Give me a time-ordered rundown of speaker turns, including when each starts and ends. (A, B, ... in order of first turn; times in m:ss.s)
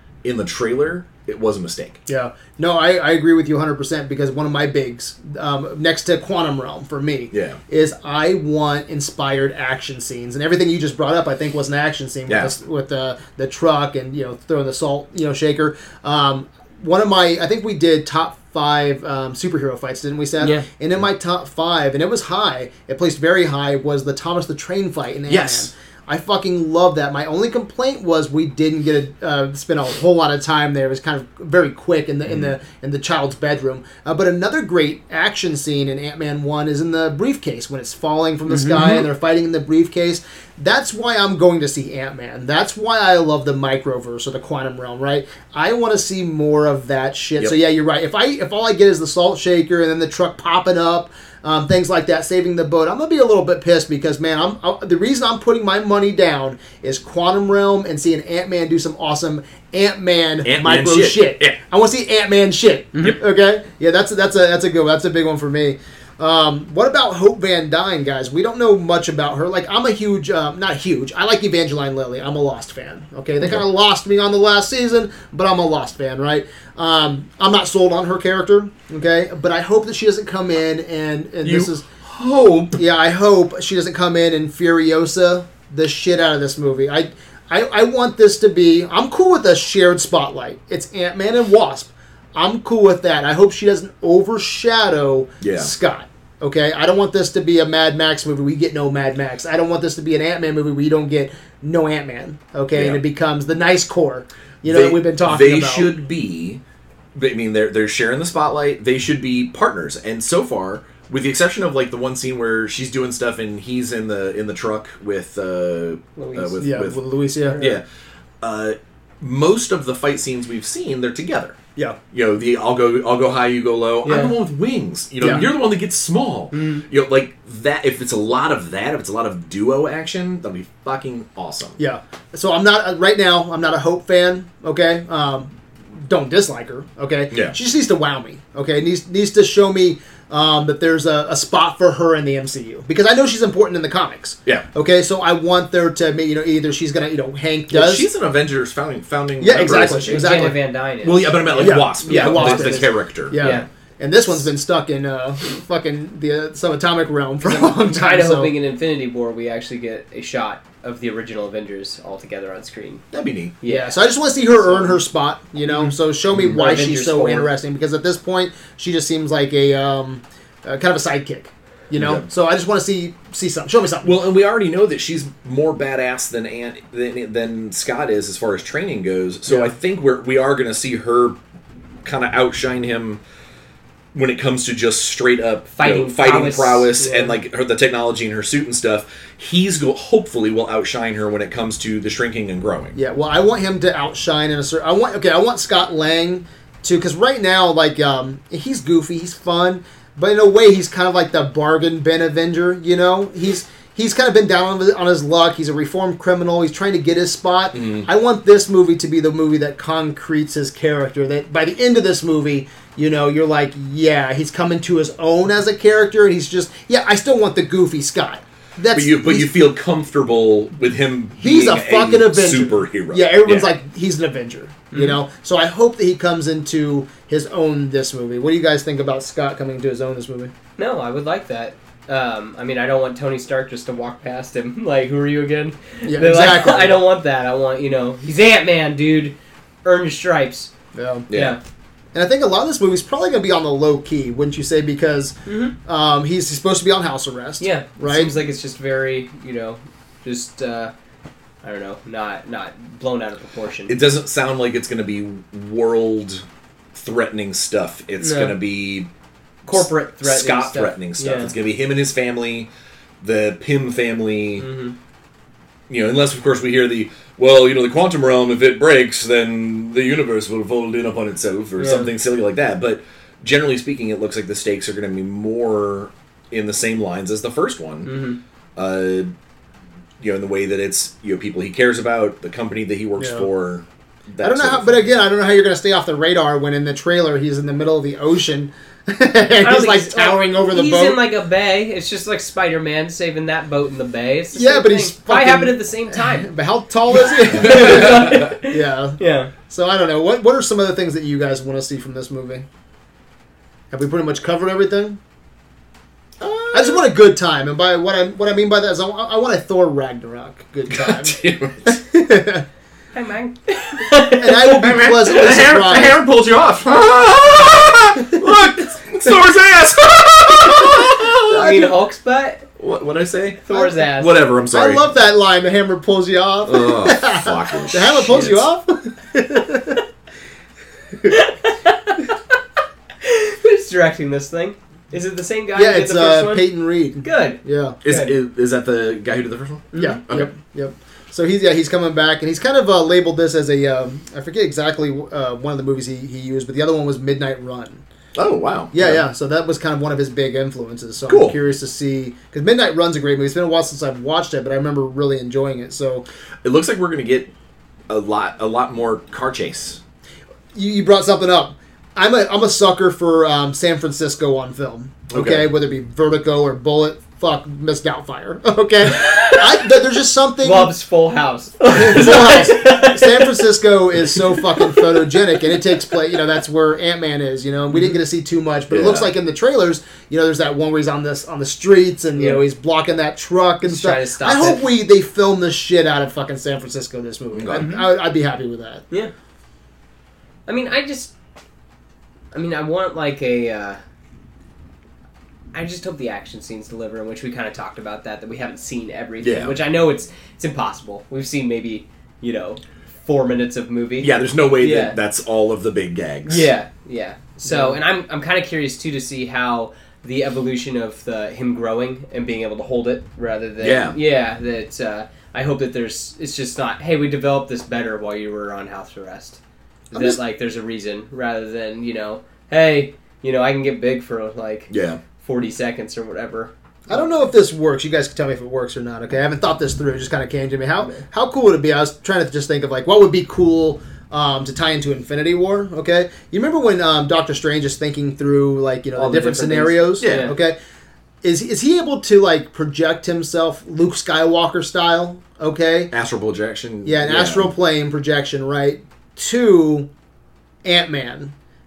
0:00.2-0:02.0 A
0:02.1-1:21.8 B
0:07.3-0:07.6 A
0:12.3-0:12.5 A
0:20.4-0:20.6 C
0:25.3-0:25.7 A
1:00.4-1:01.6 A
1:21.4-1:22.8 A
1:22.7-1:45.9 B
1:35.4-1:35.7 A
1:42.7-1:43.0 A
1:44.6-1:46.6 A
1:47.1-1:57.0 A
1:56.2-1:56.6 C
1:56.6-1:57.6 B
1:57.4-1:57.8 C
1:57.6-1:57.8 A
1:58.4-2:01.6 A
2:02.1-2:11.8 A
2:04.0-2:04.4 C
2:05.2-2:05.4 B
2:06.5-2:06.8 C
2:11.8-2:28.1 B
2:17.3-2:17.6 A
2:27.7-2:30.5 A
2:29.4-2:30.6 B
2:30.1-2:32.8 C
2:31.0-2:33.6 A
2:31.6-2:38.5 B
2:33.4-2:33.7 C
2:37.4-2:43.0 C
2:43.1-2:43.5 A
2:43.6-2:44.0 C
2:43.6-2:54.2 B
2:44.6-2:45.0 C
2:45.7-2:47.5 C
2:51.9-2:52.2 A
2:54.0-3:01.4 A
2:59.5-2:59.7 B
3:02.0-3:03.2 A
3:04.1-3:12.9 A
3:05.8-3:07.3 C
3:12.9-3:39.5 B
3:27.7-3:28.1 A
3:38.9-3:43.7 A
3:41.4-3:50.5 B
3:44.9-3:45.2 C
3:50.8-4:00.7 C
3:56.0-3:57.0 B
4:00.9-4:01.3 B
4:01.3-4:01.6 A
4:01.3-4:01.6 C
4:02.1-4:08.3 B
4:05.4-4:05.7 C
4:07.6-4:10.9 C
4:11.6-4:13.9 C
4:13.9-4:19.1 A
4:18.2-4:18.6 C
4:19.7-4:21.5 C
4:19.7-4:22.7 A
4:23.2-4:24.7 A
4:24.6-4:24.9 C
4:25.9-4:39.3 A
4:31.8-4:32.1 C
4:38.0-4:38.4 C
4:40.2-4:45.1 A
4:43.2-4:43.5 B
4:44.4-4:51.2 B
4:49.6-4:56.5 C
4:54.5-5:02.6 B
4:57.2-4:59.5 C
4:57.6-4:58.5 A
5:03.9-5:05.2 B
5:06.4-5:07.1 A
5:06.7-5:12.6 B
5:10.9-5:12.0 A
5:13.1-5:15.0 C
5:14.4-5:16.2 B
5:14.8-5:21.8 A
5:21.5-5:22.6 C
5:21.5-5:21.9 B
5:22.8-5:25.0 A
5:23.6-5:24.3 C
5:24.7-5:30.0 B
5:26.6-5:28.7 A
5:31.3-5:32.3 C
5:33.2-5:36.7 C
5:35.7-5:38.0 B
5:37.2-5:38.3 C
5:38.0-5:40.5 A
5:39.9-5:40.2 C
5:40.0-5:48.0 B
5:48.4-5:49.2 A
5:48.9-5:56.3 B
5:51.3-5:51.6 A
5:56.6-5:57.5 A
5:58.1-6:00.0 A
6:00.7-6:10.9 B
6:05.3-6:05.7 A
6:09.2-6:09.7 C
6:10.6-6:13.6 C
6:11.9-6:29.0 B
6:14.8-6:15.2 C
6:18.9-6:19.3 A
6:22.4-6:22.6 C
6:23.8-6:24.8 C
6:27.5-6:28.1 A
6:27.8-6:28.0 C
6:30.7-6:31.3 C
6:32.5-6:34.0 C
6:35.7-6:45.2 C
6:39.4-6:39.8 A
6:44.2-6:46.7 A
6:46.5-6:59.6 C
6:53.8-6:54.2 A
7:00.1-7:00.4 B
7:00.1-7:04.9 C
7:04.9-7:05.2 A
7:05.4-7:07.2 C
7:07.1-7:20.8 B
7:19.2-7:20.5 C
7:20.2-7:20.5 A
7:21.4-7:26.1 B
7:26.1-7:27.7 A
7:27.0-7:30.1 B
7:30.8-7:31.5 B